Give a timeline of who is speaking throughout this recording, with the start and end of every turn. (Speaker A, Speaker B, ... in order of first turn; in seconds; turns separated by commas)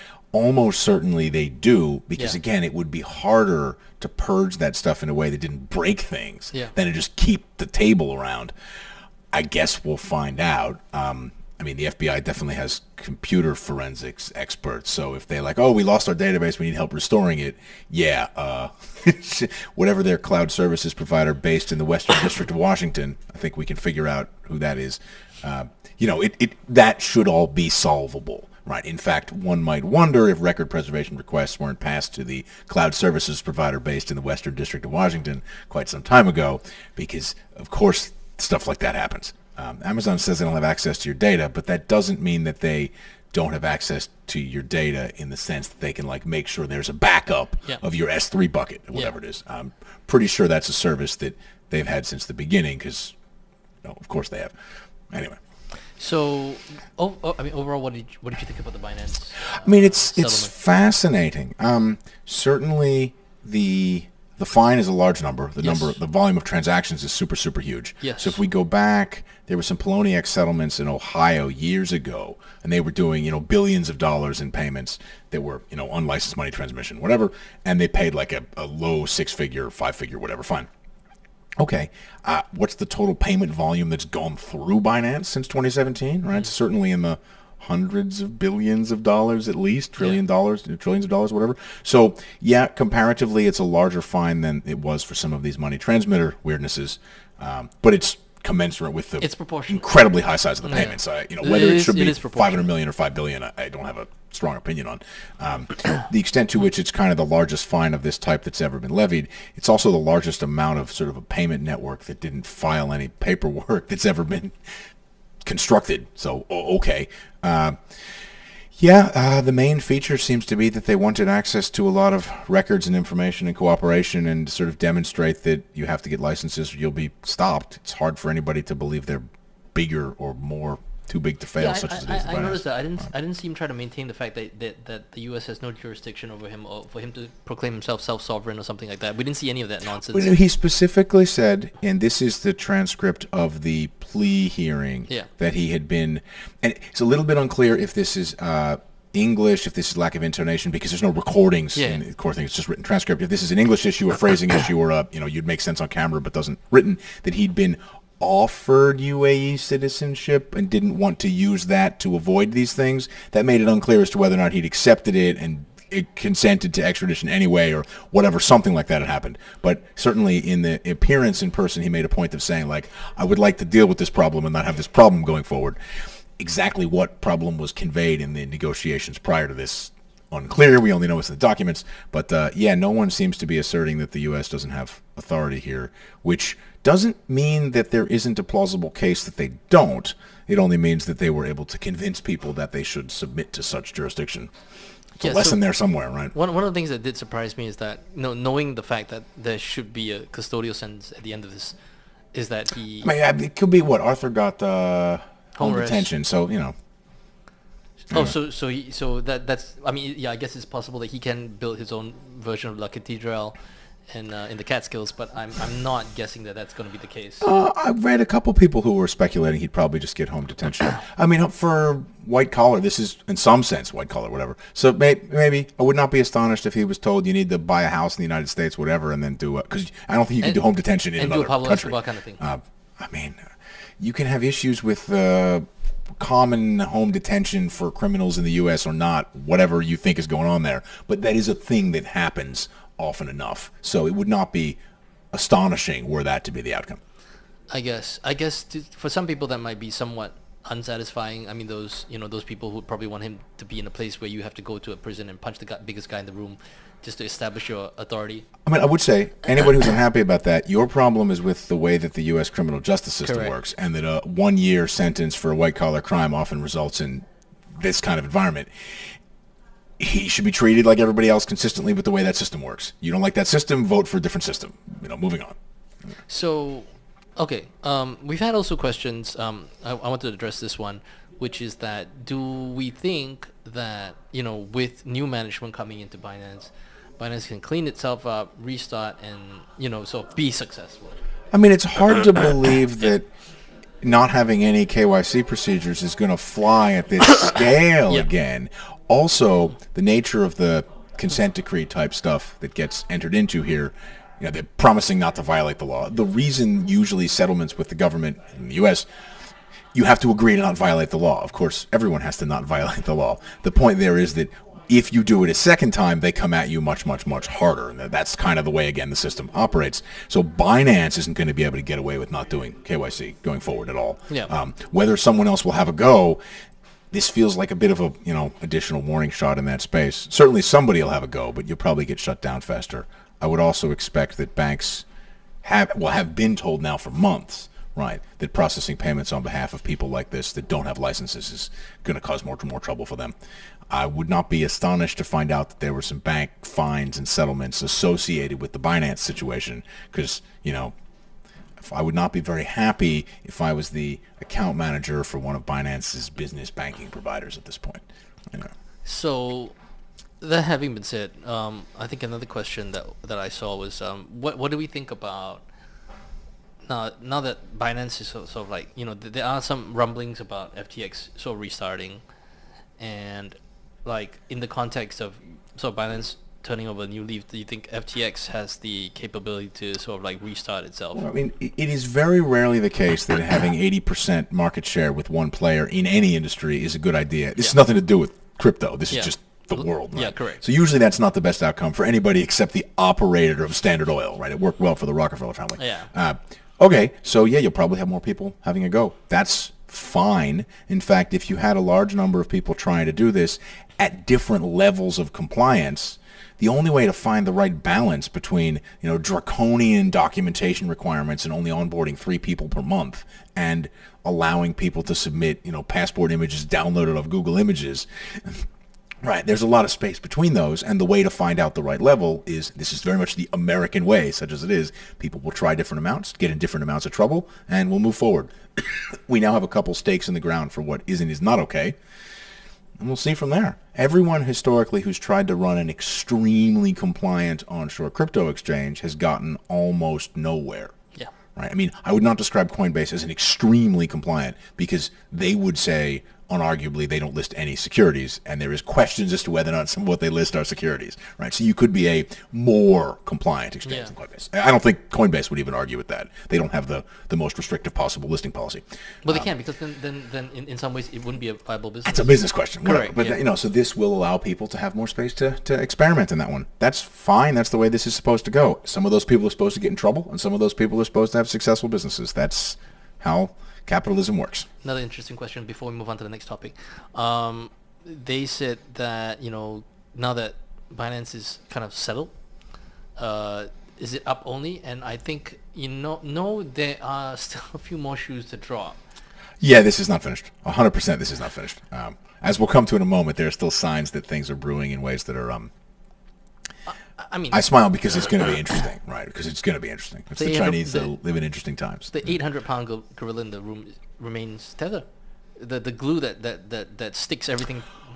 Speaker A: 0.3-8.5, Speaker A: 9.3-53.1, Speaker A: 53.8-54.5, Speaker A: 55.1-55.4, Speaker B: 56.0-60.5, Speaker A: 59.4-80.7, Speaker B: 65.6-65.9, Speaker B: 68.0-68.4, Speaker A: 81.6-114.5, Speaker B: 99.2-100.0, Speaker B: 100.6-102.7, Speaker A: 115.4-132.6, Speaker B: 131.6-140.3, Speaker A: 140.1-175.8, Speaker B: 151.8-152.0, Speaker A: 176.4-194.5, Speaker A: 195.2-196.3, Speaker B: 195.2-195.6, Speaker B: 196.3-201.7, Speaker B: 202.3-203.1, Speaker A: 203.0-206.7, Speaker B: 205.6-206.1, Speaker B: 208.0-213.6, Speaker B: 214.1-217.5, Speaker A: 217.4-233.5, Speaker B: 231.2-232.4, Speaker A: 234.0-244.8, Speaker A: 245.3-247.0, Speaker B: 247.7-258.5, Speaker A: 258.6-268.7, Speaker B: 263.2-263.5, Speaker A: 270.0-275.6, Speaker B: 276.3-291.2, Speaker A: 291.5-293.3, Speaker A: 294.0-309.1, Speaker A: 309.9-326.4, Speaker A: 327.1-335.0, Speaker A: 335.6-343.3, Speaker A: 343.9-350.9, Speaker A: 351.8-358.7, Speaker B: 359.0-359.7, Speaker B: 360.4-365.6, Speaker B: 366.9-372.2, Speaker B: 373.0-381.2, Speaker A: 381.1-418.7, Speaker B: 389.1-390.6, Speaker B: 395.8-396.1, Speaker A: 419.2-432.0, Speaker A: 433.0-440.9, Speaker A: 441.6-459.4, Speaker B: 453.8-454.1, Speaker B: 459.2-463.4, Speaker A: 462.1-474.7, Speaker B: 474.8-482.3, Speaker B: 483.2-489.0, Speaker A: 489.6-495.7, Speaker B: 497.2-497.6, Speaker A: 497.5-502.3, Speaker B: 500.4-501.1, Speaker B: 502.1-505.1, Speaker B: 505.6-507.9